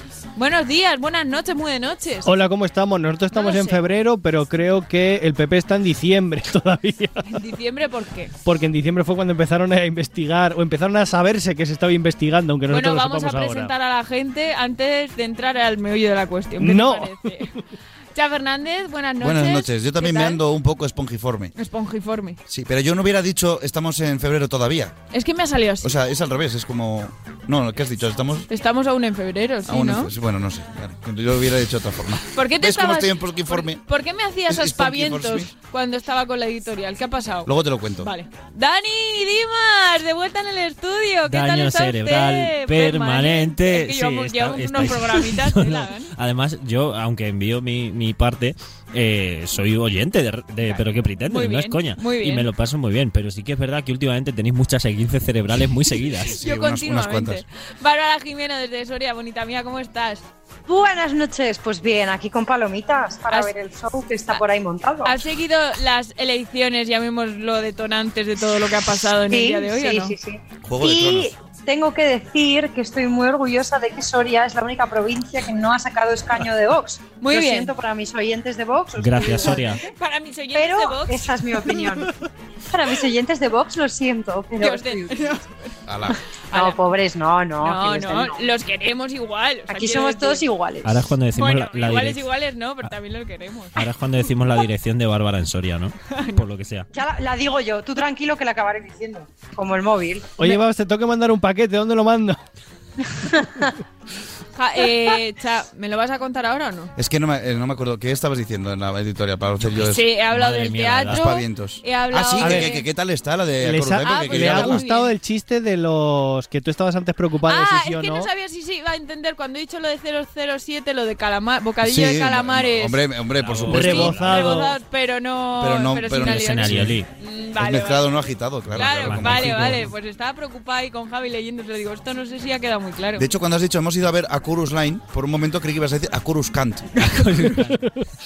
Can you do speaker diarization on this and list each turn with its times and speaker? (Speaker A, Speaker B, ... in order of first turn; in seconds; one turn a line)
Speaker A: 0.4-2.3
Speaker B: 2.2-7.2
Speaker A: 3.3-3.8
Speaker A: 7.3-8.3
Speaker B: 8.4-13.7
Speaker A: 12.7-17.6
Speaker B: 16.6-17.2
Speaker A: 18.1-20.4
Speaker C: 19.2-21.5
Speaker A: 21.6-22.4
Speaker C: 22.5-24.9
Speaker A: 25.1-25.9
Speaker C: 25.8-28.5
Speaker A: 28.5-30.1
Speaker C: 29.7-33.8
Speaker A: 32.3-46.1
Speaker C: 34.5-35.5
Speaker C: 37.5-38.1
Speaker D: 41.3-56.4
Speaker A: 50.6-52.5
Speaker C: 56.2-57.4
Speaker A: 56.3-60.2
Speaker E: 60.6-65.2
Speaker A: 65.0-70.1
Speaker E: 69.3-79.8
Speaker C: 70.6-71.3
Speaker A: 77.2-77.7
Speaker D: 79.0-79.8
Speaker A: 79.4-81.3
Speaker E: 80.5-85.4
Speaker A: 84.6-85.7
Speaker C: 85.9-86.2
Speaker A: 86.5-86.8
Speaker E: 86.5-88.5
Speaker A: 87.6-90.4
Speaker E: 89.7-91.1
Speaker D: 90.8-92.2
Speaker A: 91.3-93.8
Speaker D: 93.8-96.9
Speaker A: 96.1-96.4
Speaker E: 96.9-100.5
Speaker B: 100.4-102.4
Speaker E: 103.2-103.7
Speaker A: 104.5-106.9
Speaker C: 107.0-110.0
Speaker A: 109.8-112.9
Speaker D: 110.3-111.2
Speaker C: 111.1-114.8
Speaker B: 112.4-112.7
Speaker B: 113.6-118.3
Speaker A: 114.0-115.1
Speaker A: 117.5-123.1
Speaker C: 121.8-124.3
Speaker D: 123.4-124.6
Speaker A: 123.7-133.3
Speaker B: 123.7-124.8
Speaker C: 125.6-127.0
Speaker D: 126.2-127.1
Speaker C: 127.6-129.8
Speaker D: 128.7-129.9
Speaker C: 133.2-137.0
Speaker D: 137.0-137.8